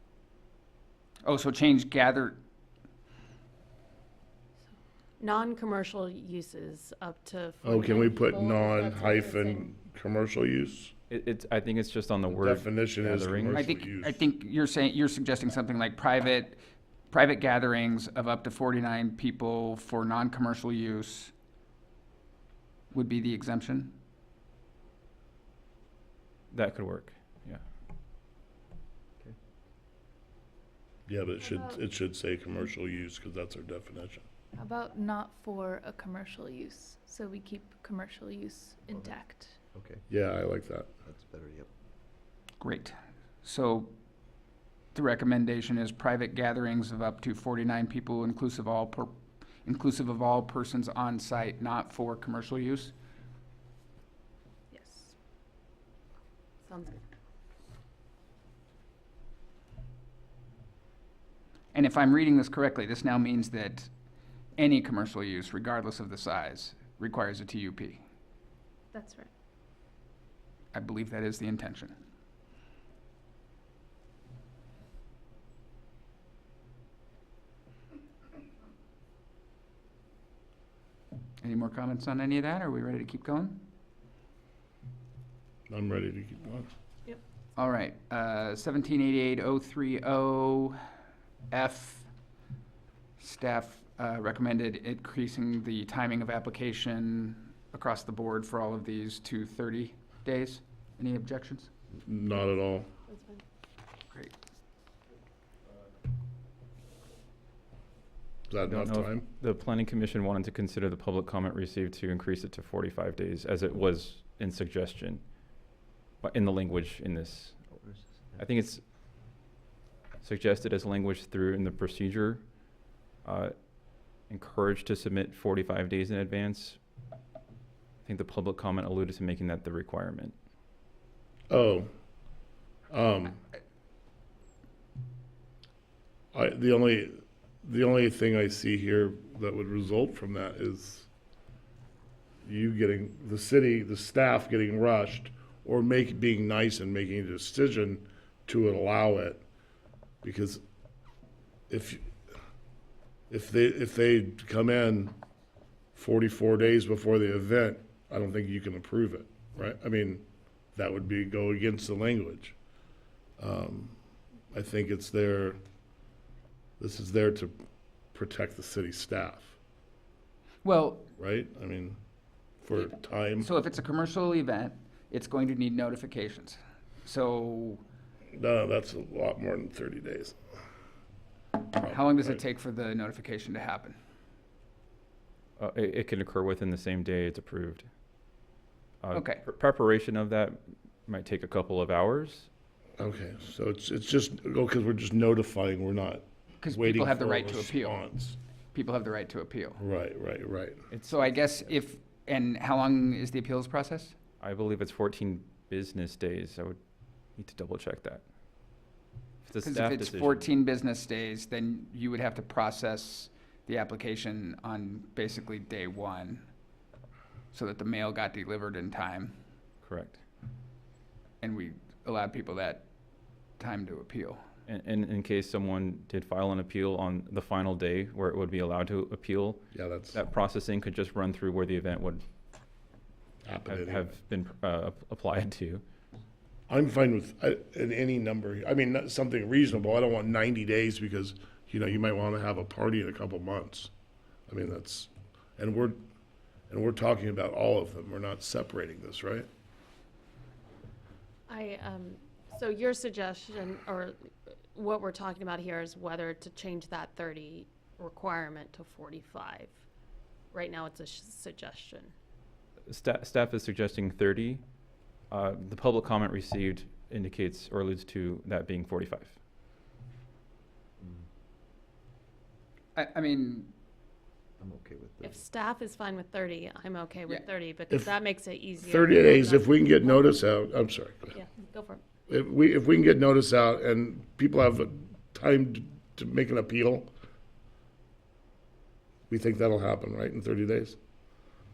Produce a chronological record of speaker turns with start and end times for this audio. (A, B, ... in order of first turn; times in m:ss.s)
0:01.2-0:02.4 A
0:05.2-0:09.6 B
0:07.6-0:10.9 C
0:11.1-0:13.6 D
0:12.3-0:14.2 C
0:13.5-0:16.6 A
0:17.1-0:21.3 A
0:22.9-0:23.9 A
0:26.5-0:27.6 D
0:31.1-0:34.2 C
0:31.4-0:31.8 E
0:34.6-0:39.6 E
0:38.9-0:39.2 F
0:39.7-0:40.0 F
0:40.1-0:40.9 C
0:41.0-0:41.7 F
0:42.6-0:43.9 A
0:44.9-0:52.9 A
0:54.7-0:55.1 E
0:56.6-0:57.0 B
1:01.7-1:03.9 A
1:04.6-1:08.0 A
1:08.9-1:09.3 E
1:10.7-1:11.9 A
1:21.4-1:23.6 A
1:25.7-1:26.7 C
1:27.6-1:30.8 A
1:31.5-1:32.1 A
1:33.2-1:41.7 A
1:42.0-1:42.9 C
1:43.1-1:43.4 B
1:48.5-1:49.2 C
1:48.6-1:55.2 D
1:56.2-1:57.6 D
1:57.8-1:58.5 F
1:58.4-1:58.8 D
2:00.2-2:02.4 D
2:03.2-2:03.5 D
2:04.3-2:06.8 D
2:08.0-2:10.3 D
2:11.5-2:11.9 C
2:12.9-2:13.4 C
2:16.3-2:21.1 C
2:22.4-2:29.4 C
2:30.2-2:30.6 C
2:31.7-2:32.1 C
2:33.3-2:35.1 C
2:35.9-2:42.6 C
2:43.4-2:44.0 C
2:44.5-2:45.6 C
2:46.8-2:47.5 C
2:48.1-2:49.6 C
2:50.6-2:51.1 A
2:51.2-2:52.0 C
2:52.6-2:53.5 C
2:53.4-2:57.8 A
2:58.3-3:00.4 C
3:01.7-3:02.4 C
3:01.7-3:04.0 A
3:05.6-3:07.9 D
3:09.0-3:12.5 D
3:09.1-3:09.4 A
3:13.0-3:18.4 C
3:16.6-3:18.0 A
3:18.7-3:19.8 A
3:19.8-3:20.8 C
3:20.9-3:21.7 D
3:21.1-3:24.2 A
3:24.4-3:26.8 D
3:27.4-3:28.2 D
3:29.4-3:30.4 D
3:29.6-3:36.5 A
3:37.5-3:39.3 A
3:39.8-3:40.2 D
3:41.4-3:42.8 A
3:43.6-3:44.4 A
3:44.7-3:49.6 D
3:49.7-3:50.2 C
3:50.1-3:52.2 D
3:53.4-3:54.2 C
3:53.7-3:55.8 D
3:56.7-4:03.9 C
4:04.5-4:06.0 C
4:06.7-4:09.5 C
4:11.5-4:14.2 B
4:14.7-4:19.8 B
4:20.5-4:22.1 B
4:22.9-4:24.6 D
4:25.3-4:29.3 D
4:31.0-4:31.2 F
4:33.0-4:33.7 A
4:34.6-4:35.4 F
4:35.2-4:40.4 B
4:38.8-4:41.4 C
4:41.3-4:42.0 B
4:42.3-4:47.1 C
4:49.3-4:51.0 C